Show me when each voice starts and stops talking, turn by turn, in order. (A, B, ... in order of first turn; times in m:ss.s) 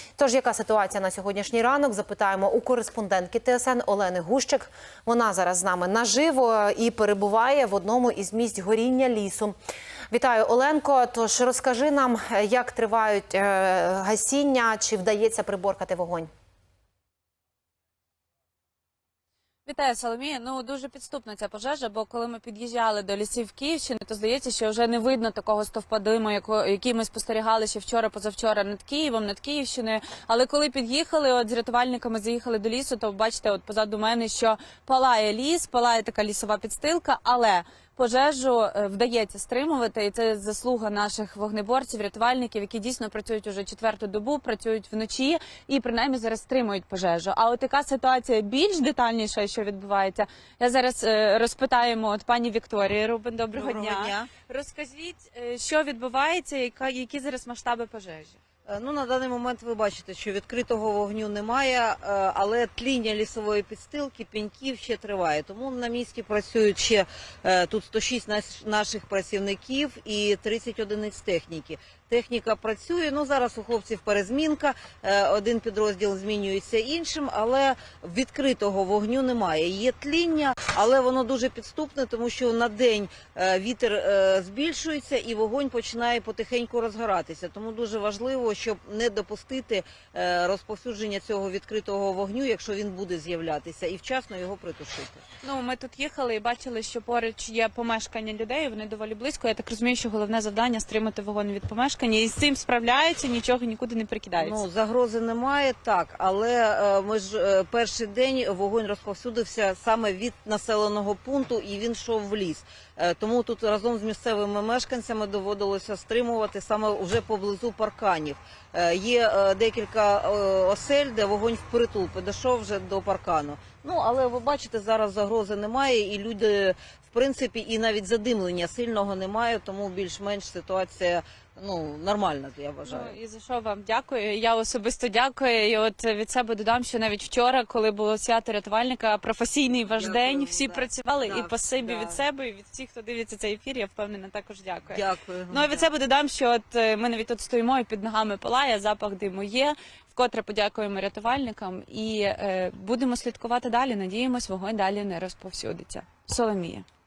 0:00.2-0:09.6 A
0:10.1-0:16.3 A
0:19.7-0:58.4 B
0:53.6-0:54.3 C
0:58.7-1:35.2 C
1:35.4-1:44.6 B
1:44.4-2:13.1 C
2:12.8-2:36.8 B
2:19.9-2:22.2 C
2:24.9-2:25.9 C